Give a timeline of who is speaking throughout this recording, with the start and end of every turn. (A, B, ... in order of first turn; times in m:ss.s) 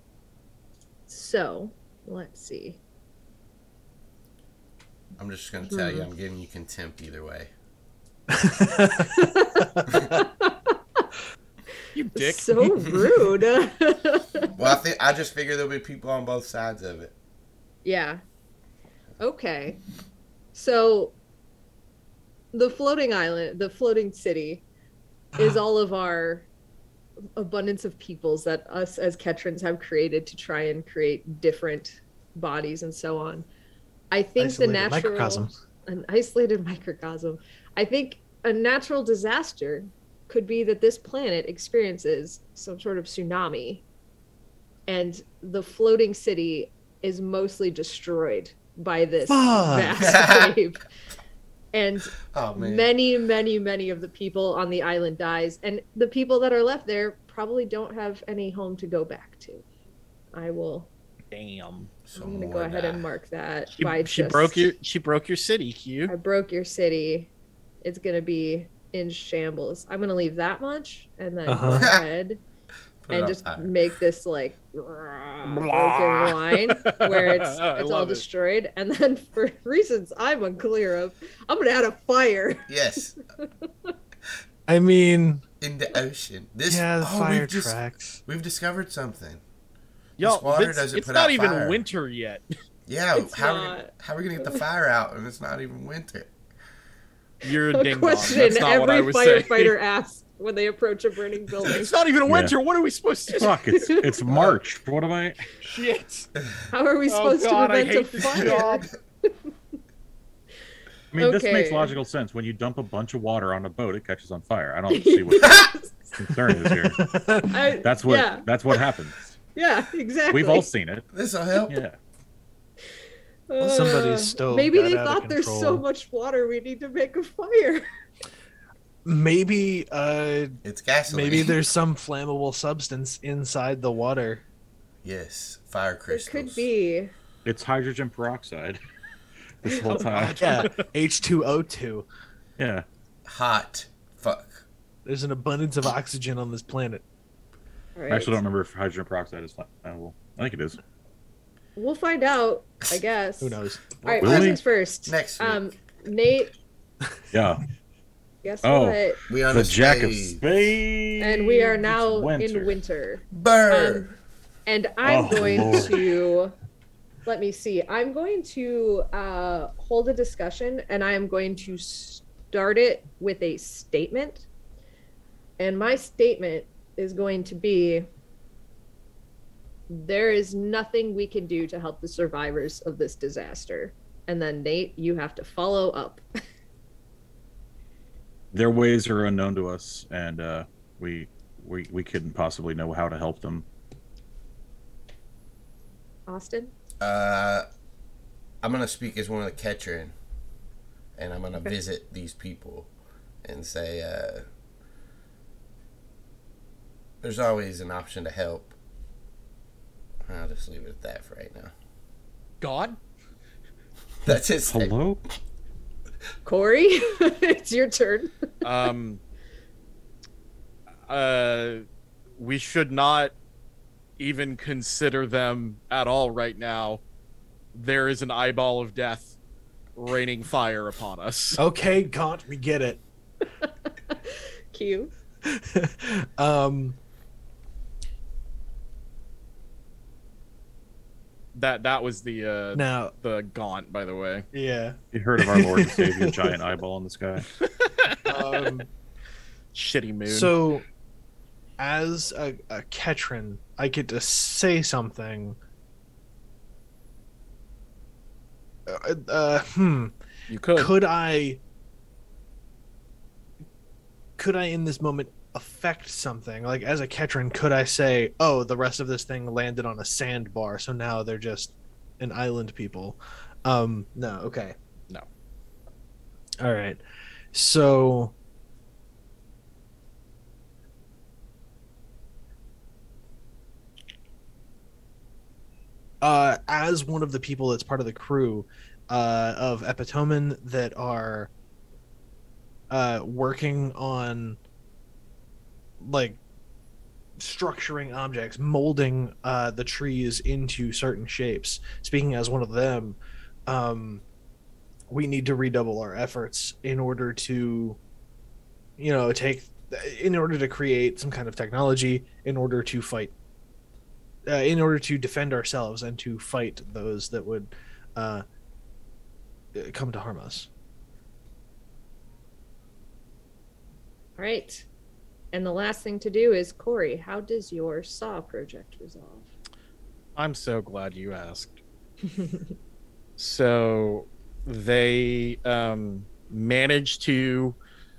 0:01.1-0:02.8 A
0:05.2-0:07.5 B
0:05.7-0:06.1 A
0:08.3-0:10.2 C
0:09.0-0:11.0 A
0:11.9-0:12.5 D
0:12.2-0:14.6 A
0:14.6-0:17.1 B
0:17.8-0:18.2 A
0:19.2-0:19.8 A
0:20.5-0:21.2 A
0:22.5-0:24.6 A
0:25.4-0:26.5 A
0:27.4-0:33.5 A
0:34.1-0:43.8 A
0:34.4-0:35.5 C
0:44.9-0:50.8 A
0:49.3-0:50.1 C
0:50.0-0:50.6 B
0:51.7-0:59.6 A
0:52.3-0:52.9 B
1:00.3-1:00.9 A
1:01.3-1:01.9 D
1:02.1-1:03.1 B
1:02.2-1:04.7 A
1:03.8-1:06.1 D
1:06.1-1:07.3 A
1:07.8-1:12.4 A
1:11.5-1:11.9 C
1:11.8-1:12.1 B
1:13.0-1:13.7 B
1:13.1-1:22.7 A
1:15.4-1:18.2 D
1:22.7-1:23.1 B
1:23.4-1:23.9 A
1:24.7-1:25.4 C
1:25.6-1:29.4 B
1:26.7-1:28.2 C
1:30.2-1:31.8 B
1:30.2-1:32.4 D
1:32.9-1:36.3 B
1:33.1-1:34.6 A
1:37.4-1:39.7 D
1:37.5-1:41.9 A
1:41.6-1:43.5 D
1:42.2-1:42.6 E
1:43.3-1:44.1 A
1:43.3-1:45.5 E
1:44.3-1:44.6 B
1:45.6-1:46.3 D
1:46.7-1:49.3 A
1:47.1-1:48.9 D
1:51.1-1:57.0 E
1:51.2-1:52.0 A
1:54.9-1:56.3 A
1:56.6-1:57.8 C
1:57.5-1:58.8 A
1:57.8-1:59.4 E
1:59.6-2:00.7 A
2:00.3-2:01.0 E
2:01.1-2:01.8 B
2:01.7-2:02.0 E
2:03.5-2:07.9 A
2:03.6-2:05.8 C
2:09.0-2:14.4 C
2:10.6-2:11.6 B
2:15.0-2:16.7 B
2:16.1-2:17.1 A
2:17.4-2:18.8 E
2:19.6-2:20.6 E
2:19.9-2:20.8 D
2:20.0-2:22.1 C
2:22.6-2:22.8 E
2:23.3-2:24.6 B
2:25.0-2:27.0 C
2:28.0-2:28.4 A
2:28.1-2:30.8 E
2:31.8-2:36.5 A
2:33.4-2:33.8 C
2:34.1-2:35.6 B
2:34.2-2:34.6 E
2:37.3-2:37.6 E
2:38.4-2:39.2 A
2:38.6-2:42.8 E
2:39.3-2:40.4 B
2:41.2-2:46.5 A
2:43.3-2:44.1 B
2:45.0-2:46.0 E
2:47.3-2:54.5 A
2:55.6-2:58.1 A
2:59.9-3:06.2 A
3:08.5-3:13.7 E
3:16.3-3:16.7 A
3:17.0-3:17.7 B
3:18.6-3:20.1 B
3:21.2-3:22.9 B
3:23.4-3:24.4 B
3:27.2-3:28.7 B
3:30.3-3:31.7 B
3:32.6-3:33.0 D
3:34.3-3:35.0 B
3:34.3-3:35.2 E
3:36.4-3:38.3 A
3:38.6-3:39.2 D
3:41.1-3:41.8 D
3:42.4-3:43.4 D
3:44.2-3:47.0 D
3:47.7-3:49.4 D
3:50.0-3:51.6 D
3:51.6-3:53.0 C
3:53.6-3:55.1 A
3:55.4-3:57.0 C
4:01.5-4:04.5 D
4:02.7-4:03.1 C
4:04.5-4:06.6 C
4:05.1-4:07.5 E
4:07.8-4:08.7 D
4:08.3-4:08.9 C
4:09.7-4:10.6 D
4:10.3-4:10.8 C
4:11.8-4:15.6 C
4:18.9-4:20.1 C
4:20.5-4:20.9 D
4:20.7-4:21.6 C
4:24.4-4:34.8 C
4:36.6-4:37.0 C
4:37.5-4:38.3 C
4:46.2-4:51.5 C
4:52.9-4:54.6 C
4:56.0-4:56.4 C
4:57.4-5:04.2 C
5:05.1-5:08.0 C
5:09.0-5:13.3 C
5:14.5-5:18.4 C
5:19.8-5:20.7 C
5:24.4-5:24.8 A
5:25.5-5:29.5 A
5:30.4-5:31.8 D
5:33.4-5:37.8 D